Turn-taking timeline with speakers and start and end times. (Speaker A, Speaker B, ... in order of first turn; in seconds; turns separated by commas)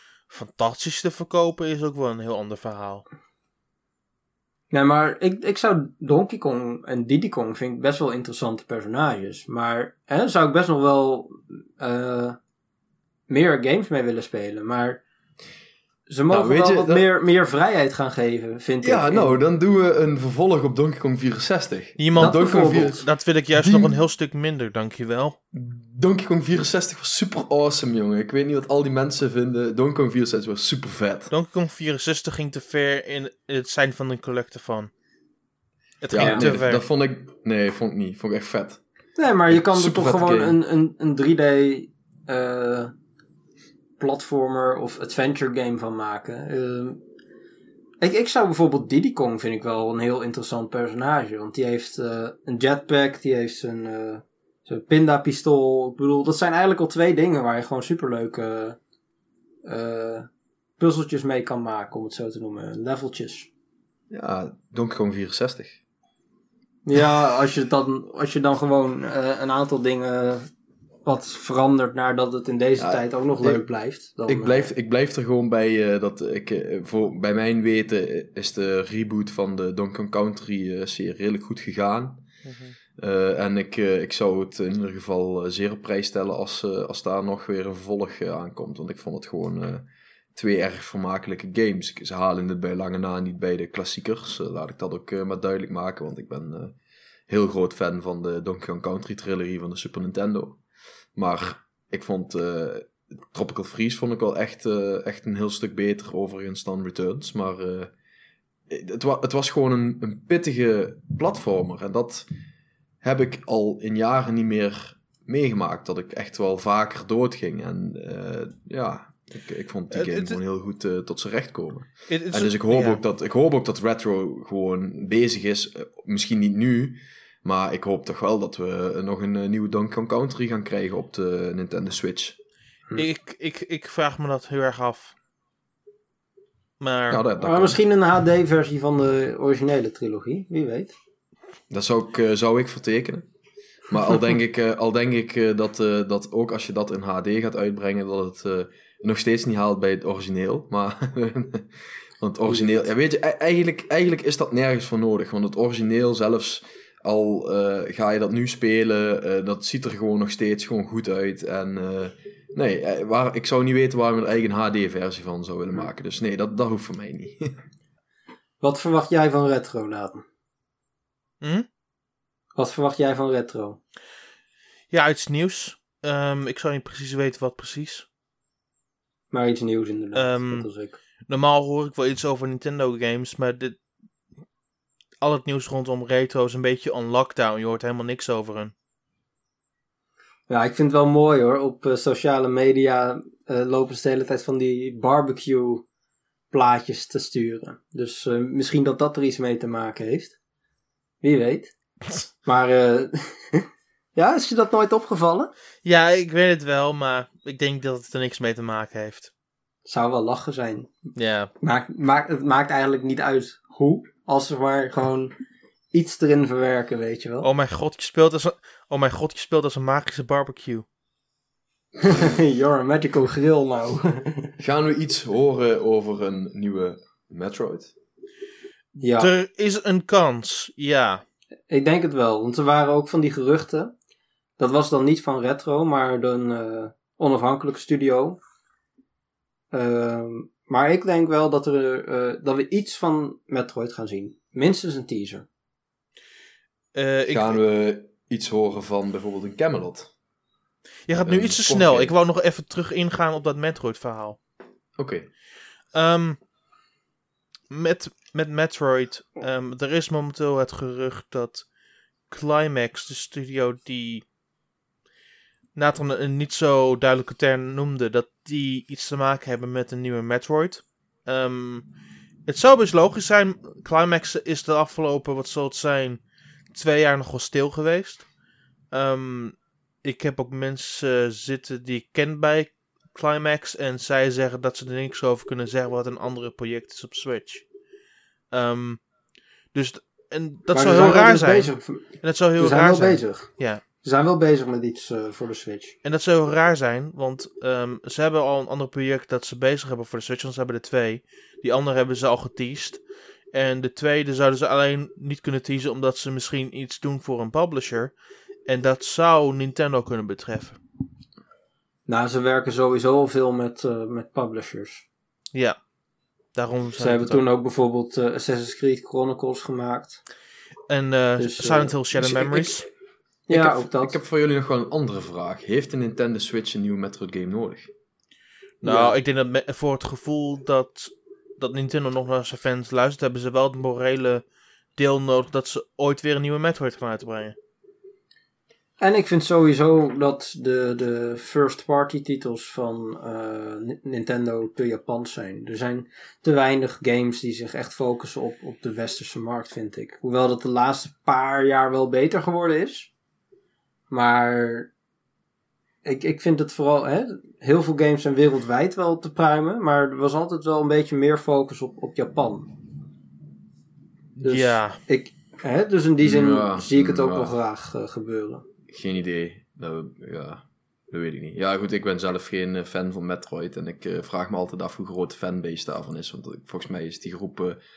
Speaker A: 0.3-3.0, Speaker B: 4.7-12.4, Speaker B: 13.3-15.0, Speaker B: 16.1-19.3, Speaker C: 16.3-17.0, Speaker C: 18.8-23.0, Speaker A: 22.0-25.4, Speaker B: 22.2-23.0, Speaker C: 23.5-24.0, Speaker C: 25.5-31.3, Speaker A: 31.3-34.9, Speaker A: 36.0-36.8, Speaker C: 36.1-38.8, Speaker B: 36.2-36.5, Speaker B: 39.2-42.9, Speaker C: 39.5-40.6, Speaker B: 44.0-47.0, Speaker B: 48.0-58.8, Speaker B: 59.6-60.3, Speaker B: 60.8-63.5, Speaker C: 64.1-65.8, Speaker B: 66.8-70.5, Speaker B: 71.0-74.7, Speaker C: 72.8-73.6, Speaker C: 74.3-82.2, Speaker A: 82.4-82.8, Speaker C: 83.0-96.7, Speaker C: 97.3-100.6, Speaker C: 101.2-107.9, Speaker C: 108.7-112.3, Speaker C: 113.0-132.4, Speaker A: 119.9-120.4, Speaker A: 122.1-123.0, Speaker A: 132.9-135.1, Speaker A: 136.8-137.2, Speaker C: 137.1-137.8, Speaker B: 137.4-140.9, Speaker C: 141.7-143.3, Speaker C: 143.9-167.6, Speaker B: 168.6-170.2, Speaker B: 172.6-173.8, Speaker A: 174.9-178.1, Speaker B: 179.3-181.0, Speaker A: 180.1-180.7, Speaker A: 181.3-183.8, Speaker A: 185.2-188.7, Speaker B: 190.5-195.8, Speaker B: 196.5-200.3, Speaker B: 201.2-201.7, Speaker B: 202.4-205.5, Speaker A: 205.8-209.3, Speaker B: 209.8-210.9, Speaker A: 211.2-211.5, Speaker B: 211.6-215.3, Speaker B: 215.9-217.5, Speaker A: 217.4-220.8, Speaker B: 222.0-224.5, Speaker C: 224.6-227.9, Speaker B: 229.0-229.3, Speaker A: 229.2-231.2, Speaker B: 231.7-233.9, Speaker B: 234.6-238.4, Speaker B: 239.7-245.5, Speaker A: 246.9-247.6, Speaker C: 247.3-250.1, Speaker A: 251.1-254.4, Speaker C: 251.2-252.1, Speaker C: 255.0-255.3, Speaker A: 255.9-256.4, Speaker A: 257.7-261.6, Speaker A: 262.3-264.2, Speaker A: 265.8-271.9, Speaker A: 272.4-276.2, Speaker A: 276.7-278.3, Speaker A: 278.9-287.6, Speaker A: 288.5-289.1, Speaker A: 289.7-293.8, Speaker B: 290.7-295.9, Speaker A: 296.0-308.1, Speaker A: 308.6-310.8, Speaker B: 312.1-315.1, Speaker A: 316.5-317.4, Speaker B: 317.0-320.2, Speaker A: 320.9-322.9, Speaker B: 321.4-322.4, Speaker B: 323.5-324.2, Speaker C: 323.5-327.9, Speaker A: 328.8-334.4, Speaker B: 328.8-329.1, Speaker A: 335.0-337.6, Speaker B: 339.0-353.1, Speaker B: 354.1-354.9, Speaker B: 356.0-362.7, Speaker A: 364.4-365.0, Speaker B: 364.4-368.6, Speaker C: 366.2-367.5, Speaker C: 368.9-377.8